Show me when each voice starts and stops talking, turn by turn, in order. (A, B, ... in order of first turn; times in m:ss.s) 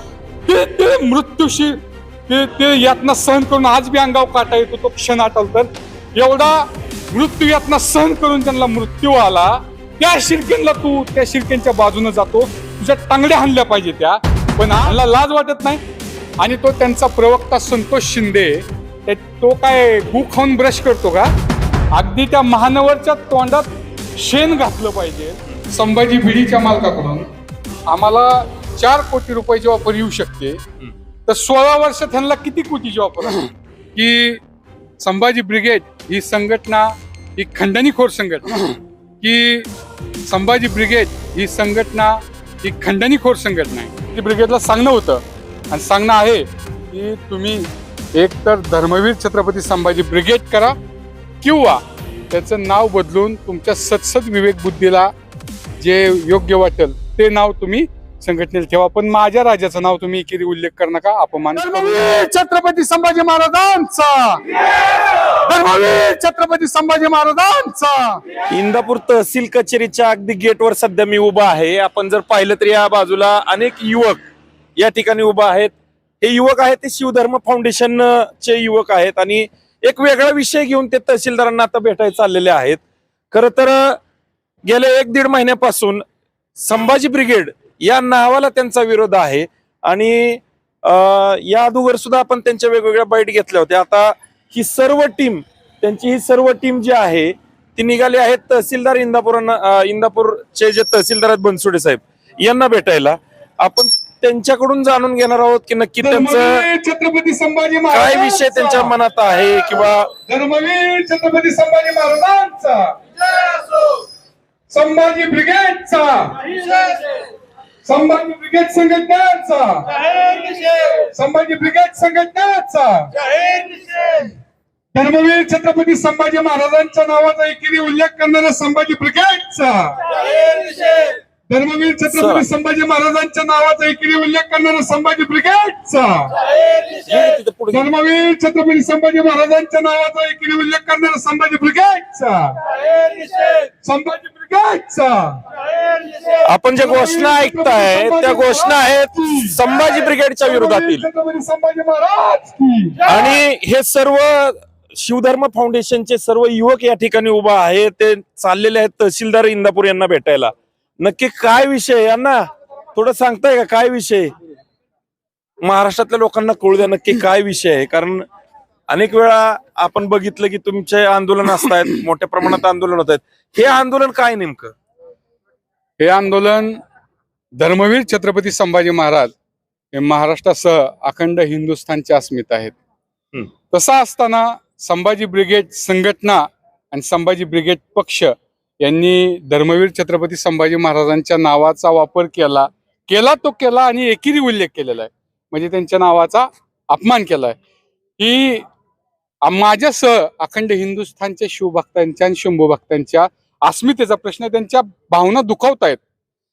0:00.4-0:15.8 A
0:16.4-0:21.3 A
0:21.9-0:27.3 A
0:27.9-0:30.6 A
0:31.3-0:34.4 A
0:35.0-0:39.7 A
0:40.3-0:50.8 A
0:51.4-0:55.1 A
0:55.8-1:04.4 A
1:05.3-1:08.2 A
1:08.5-1:14.2 B
1:14.8-1:22.8 B
1:23.3-1:24.0 B
1:24.7-1:26.0 B
1:26.6-1:46.6 B
1:46.0-1:48.9 A
1:47.9-1:50.1 B
1:50.3-1:53.0 A
1:54.7-1:57.0 A
1:57.8-2:04.2 A
2:04.9-2:16.4 A
2:12.1-2:12.4 B
2:16.8-2:17.8 B
2:17.7-2:25.4 A
2:26.4-2:31.1 B
2:26.7-2:29.6 A
2:30.4-2:33.1 A
2:33.0-2:42.4 B
2:42.9-2:44.3 B
2:45.6-2:48.2 B
2:48.9-2:54.7 B
2:56.0-2:56.8 A
2:57.6-2:59.3 A
2:59.9-3:02.7 A
3:03.7-3:17.6 A
3:18.2-3:18.6 A
3:19.4-3:26.0 A